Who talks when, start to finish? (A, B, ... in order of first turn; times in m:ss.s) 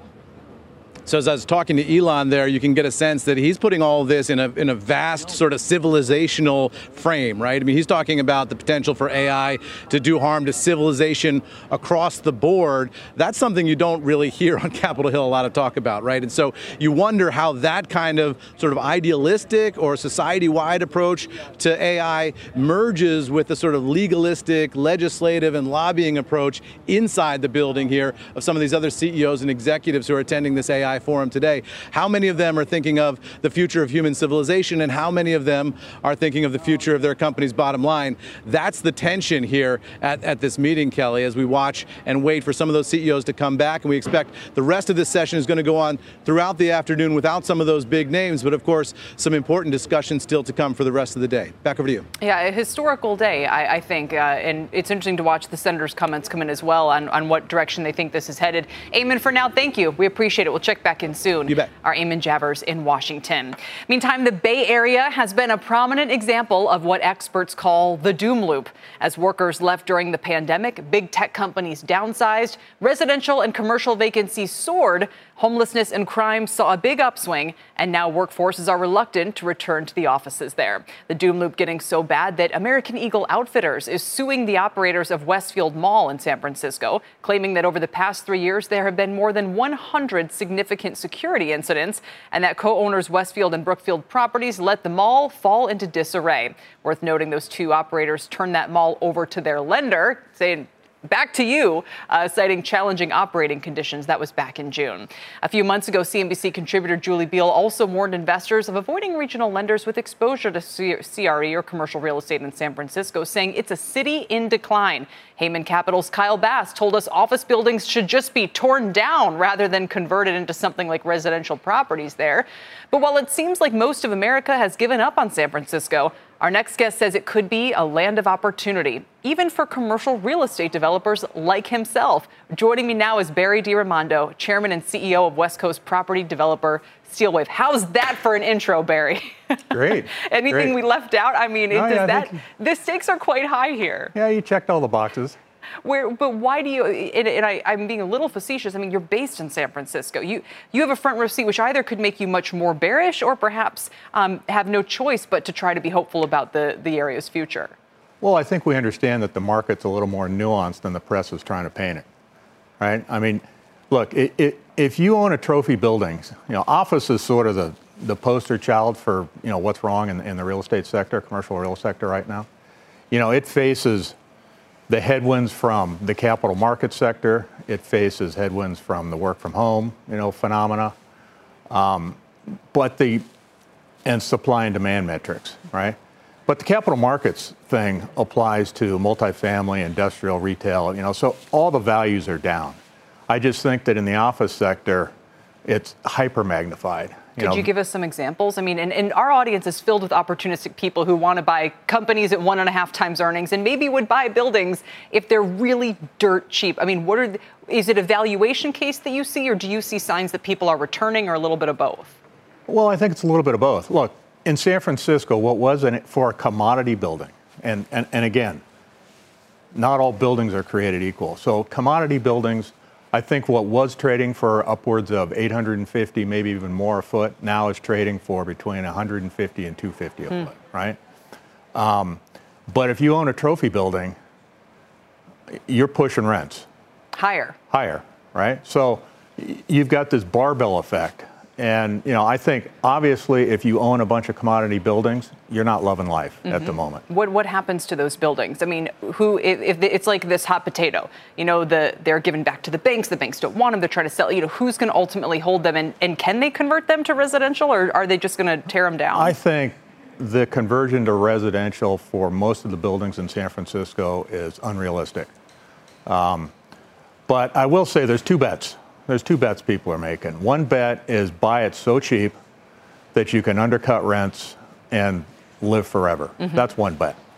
0:01.1-0:52.1 A
0:52.2-2:24.1 B
2:19.7-2:20.8 C
2:21.7-2:22.4 C
2:24.1-2:25.4 C
2:25.8-2:37.8 B
2:38.2-2:42.0 C
2:42.8-2:52.5 C
2:53.1-2:54.2 C
2:54.9-3:00.9 C
3:01.7-3:02.2 C
3:02.7-3:03.2 C
3:04.0-3:12.8 C
3:13.3-3:15.1 C
3:15.7-3:17.7 C
3:17.4-3:32.2 B
3:32.7-3:38.6 C
3:39.7-3:51.0 C
3:51.7-3:54.2 C
3:55.7-3:56.7 C
3:57.1-3:57.6 B
3:57.7-4:07.0 C
4:06.4-4:19.4 B
4:19.1-4:25.3 C
4:26.1-4:26.5 C
4:27.3-4:32.4 C
4:33.1-4:37.2 C